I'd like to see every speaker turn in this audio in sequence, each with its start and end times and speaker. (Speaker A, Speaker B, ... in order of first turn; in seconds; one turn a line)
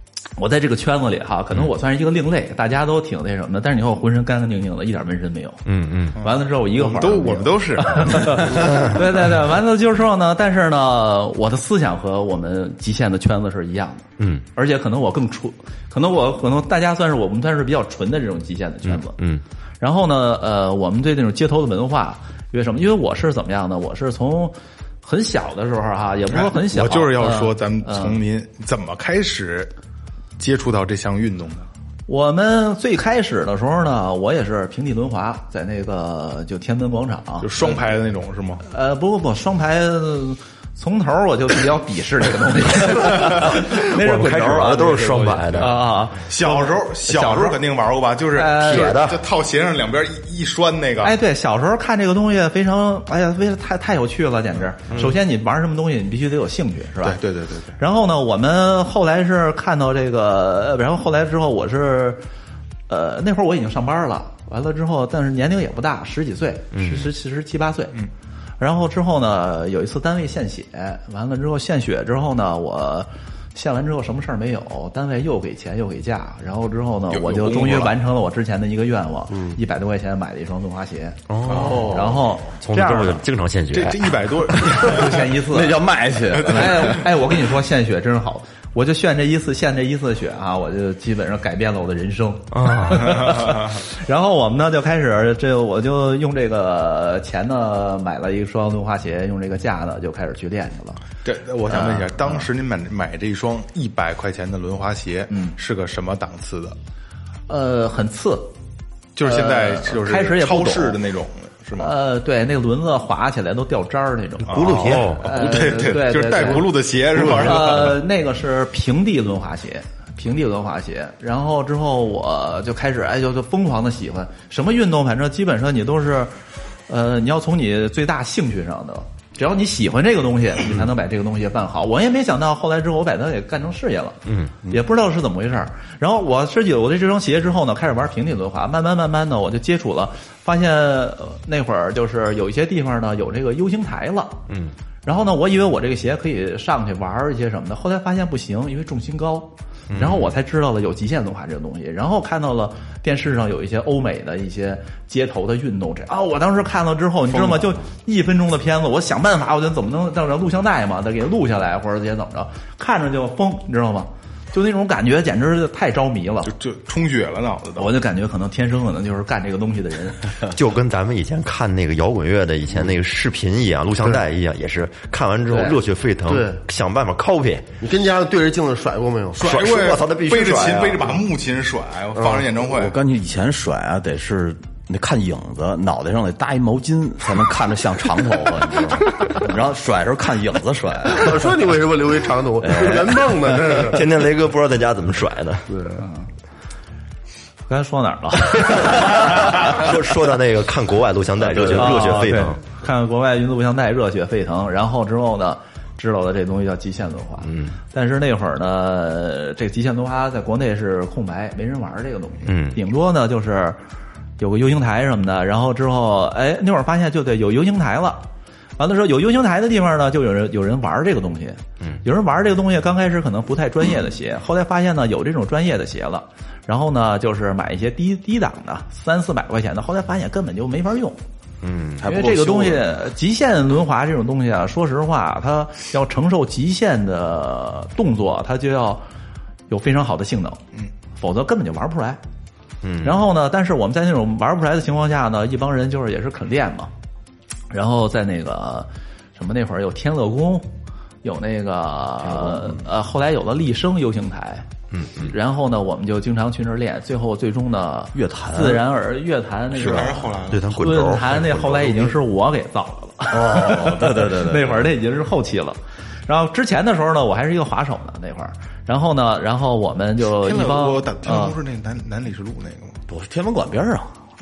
Speaker A: 0.4-5.6
Speaker B: 5.7-6.2
Speaker C: 6.2-9.0
Speaker A: 6.2-19.2
Speaker B: 14.2-14.4
Speaker B: 18.9-19.4
Speaker A: 19.8-28.2
Speaker C: 26.3-29.7
Speaker C: 30.4-31.7
Speaker A: 32.1-37.8
Speaker C: 37.4-38.6
Speaker A: 38.6-47.6
Speaker B: 43.2-45.8
Speaker C: 46.2-51.1
Speaker A: 48.3-49.0
Speaker B: 48.6-49.2
Speaker A: 51.0-57.2
Speaker C: 57.0-57.8
Speaker A: 57.8-62.2
Speaker A: 62.9-67.9
Speaker B: 66.7-67.1
Speaker A: 68.6-83.2
Speaker C: 77.1-78.0
Speaker B: 81.3-84.6
Speaker C: 81.5-82.2
Speaker C: 83.7-85.3
Speaker A: 84.7-85.8
Speaker D: 85.5-87.0
Speaker C: 86.3-87.0
Speaker A: 86.5-101.0
Speaker B: 92.5-93.4
Speaker C: 93.2-93.8
Speaker C: 101.2-106.8
Speaker A: 101.7-102.5
Speaker A: 105.3-105.5
Speaker A: 107.5-108.5
Speaker C: 109.2-111.9
Speaker A: 109.2-111.0
Speaker A: 111.8-126.3
Speaker C: 114.5-118.0
Speaker D: 114.5-115.0
Speaker B: 114.6-115.2
Speaker A: 126.9-144.4
Speaker B: 134.2-134.5
Speaker A: 145.0-166.5
Speaker B: 149.9-150.3
Speaker C: 157.3-157.7
Speaker C: 166.4-167.9
Speaker A: 167.8-170.2
Speaker B: 170.5-177.7
Speaker E: 176.3-176.6
Speaker E: 177.8-179.4
Speaker B: 179.4-181.2
Speaker C: 179.4-183.0
Speaker D: 182.6-191.5
Speaker E: 191.1-194.0
Speaker D: 192.7-193.2
Speaker B: 193.8-195.8
Speaker A: 196.0-196.2
Speaker A: 197.7-199.8
Speaker B: 198.8-202.6
Speaker D: 201.5-202.1
Speaker A: 201.6-213.8
Speaker B: 207.4-207.8
Speaker B: 212.4-212.8
Speaker A: 214.4-218.2
Speaker A: 218.8-231.2
Speaker B: 231.6-232.0
Speaker D: 232.0-232.8
Speaker A: 232.0-239.0
Speaker A: 239.7-240.6
Speaker A: 241.1-242.2
Speaker B: 242.8-243.2
Speaker A: 243.0-246.9
Speaker A: 247.7-250.7
Speaker A: 251.2-271.6
Speaker D: 252.2-252.8
Speaker B: 254.9-255.3
Speaker D: 258.1-258.8
Speaker C: 259.8-260.8
Speaker B: 259.8-262.1
Speaker D: 263.3-264.8
Speaker C: 270.2-273.0
Speaker D: 273.1-274.1